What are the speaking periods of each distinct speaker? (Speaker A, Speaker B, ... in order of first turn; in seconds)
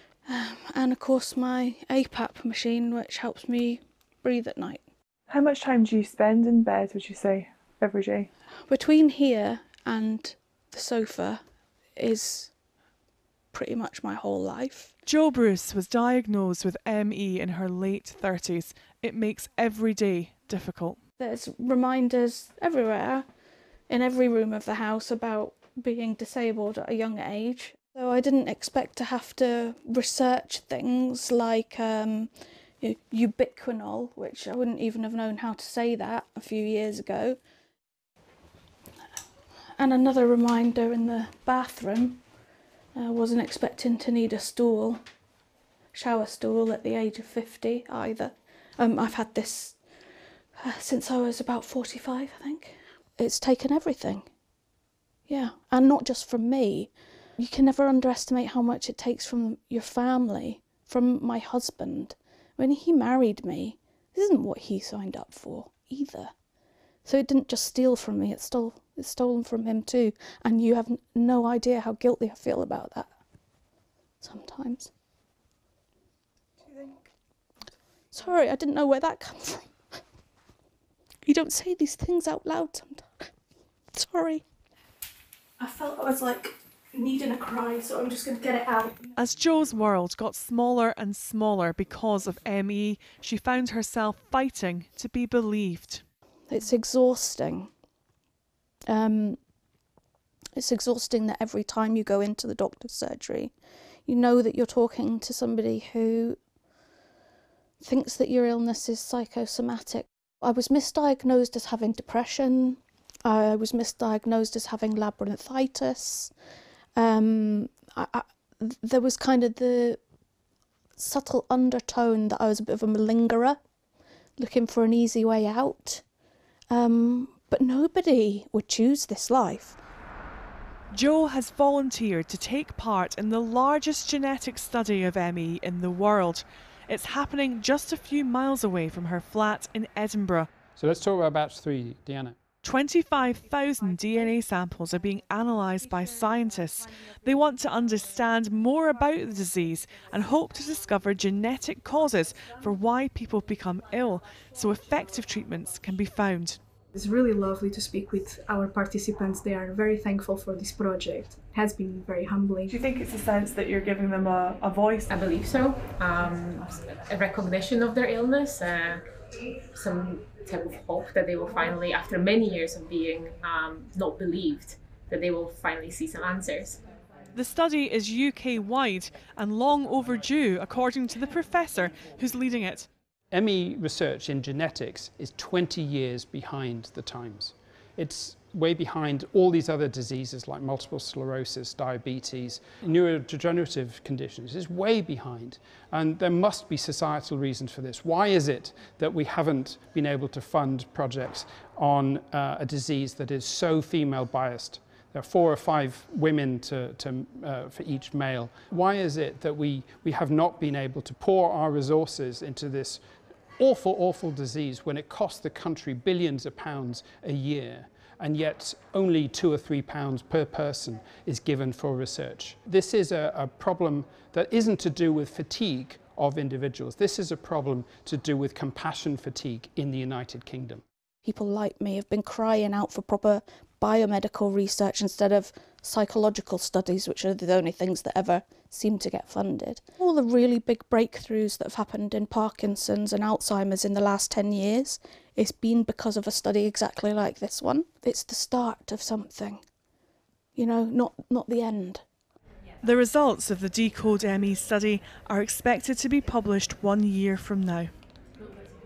Speaker A: 0.3-4.8, 8.7-11.4, 12.0-12.5, 13.5-14.9, 21.2-23.2, 23.9-32.3, 32.8-37.4, 39.8-42.2, 43.0-45.0, 45.9-49.8, 50.6-54.3, 55.3-66.3, 67.0-73.1, 74.2-74.9, 78.1-79.7, 81.2-83.3, 83.9-84.4, 85.6-89.0, 96.5-97.7, 98.9-99.4, 100.6-103.5, 104.1-106.4, 107.8-116.3, 117.0-120.0, 121.0-123.6, 124.4-126.0, 126.7-129.8, 231.2-249.6, 250.6-252.0
Speaker B: 5.3-8.3
Speaker C: 15.1-21.0, 89.2-96.0, 130.9-140.5, 142.6-156.6, 162.7-165.1, 177.3-182.9, 252.8-257.9
Speaker D: 140.8-142.4, 183.3-213.0, 213.6-230.8
Speaker E: 156.9-162.9
Speaker F: 165.1-169.1, 169.7-176.8